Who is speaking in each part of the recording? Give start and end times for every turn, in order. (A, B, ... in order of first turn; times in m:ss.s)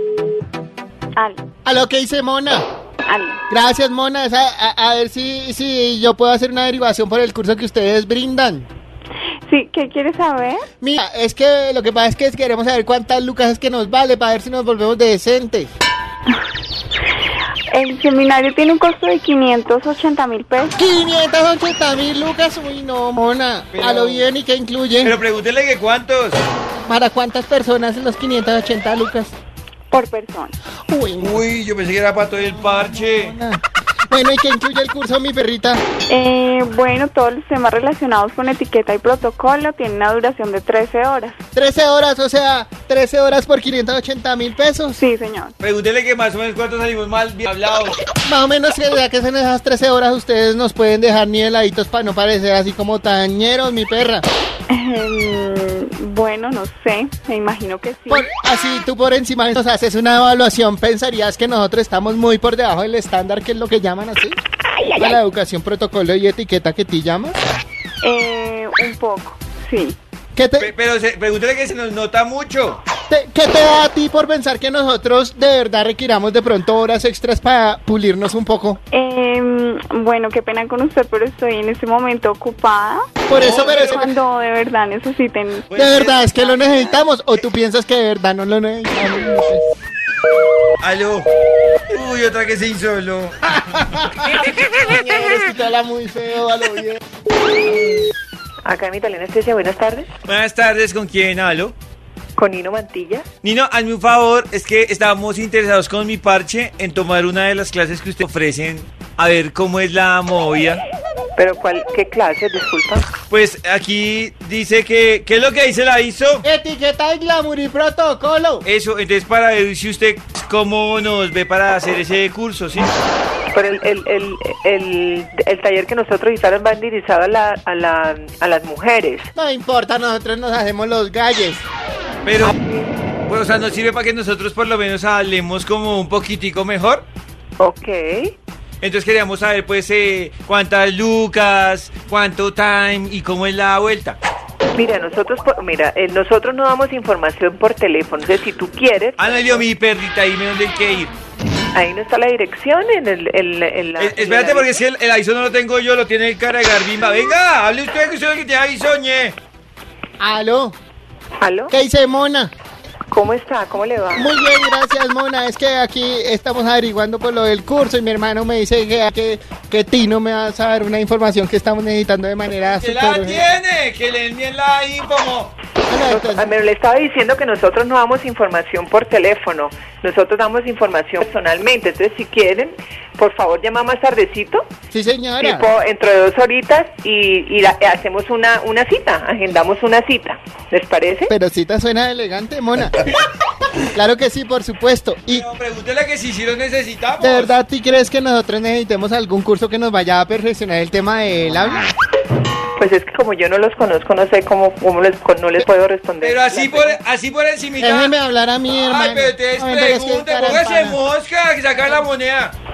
0:01.2-0:01.4 A
0:01.6-0:02.6 B
0:03.1-0:03.4 A
0:03.5-0:08.7 B
0:09.5-0:10.7 A
0:10.8-0:15.7 B
0:17.7-0:20.8 A
0:20.8-0:25.2 B
0:23.7-0:24.3 C
0:25.0-0:26.4 C
0:26.7-0:29.3 B
0:29.9-0:30.5 A
0:30.9-0:31.4 B
0:31.2-0:33.4 C
0:32.4-0:35.8 B
0:36.1-0:41.4 A
0:41.6-0:45.0 B
0:45.0-0:45.6 A
0:45.6-0:48.0 C
0:48.2-0:54.2 B
0:54.7-0:58.3 A
0:58.1-1:04.4 B
1:04.9-1:07.3 B
1:08.0-1:10.0 A
1:10.4-1:10.7 B
1:10.6-1:12.8 C
1:13.1-1:18.8 B
1:18.9-1:25.7 A
1:23.3-1:24.1 B
1:23.4-1:24.0 C
1:25.7-1:26.8 C
1:25.8-1:29.7 B
1:30.8-1:31.3 C
1:31.9-1:34.0 C
1:33.8-1:37.0 B
1:38.6-1:40.1 D
1:40.2-1:41.8 C
1:42.4-1:43.3 D
1:43.4-1:50.8 C
1:51.4-1:53.2 D
1:53.2-1:56.4 C
1:56.4-1:58.6 B
1:58.6-2:02.9 C
2:03.5-2:09.3 D
2:09.4-2:11.6 B
2:12.2-2:12.5 C
2:13.3-2:17.0 C
2:17.6-2:18.3 D
2:18.8-2:24.2 C
2:24.8-2:29.6 D
2:29.2-2:31.1 C
2:31.7-2:34.8 D
2:34.0-2:39.4 C
2:40.2-2:40.8 B
2:41.4-2:41.7 D
2:41.7-2:42.5 B
2:43.1-2:44.3 D
2:44.2-2:53.5 B
2:52.6-2:55.6 C
2:55.9-2:56.6 B
2:56.0-3:04.7 D
3:04.9-3:05.7 B
3:05.4-3:11.3 D
3:11.3-3:13.0 B
3:13.9-3:15.5 B
3:15.3-3:17.5 C
3:17.2-3:21.9 B
3:22.8-3:27.0 D
3:26.2-3:28.1 C
3:27.8-3:31.0 B
3:28.7-3:32.5 C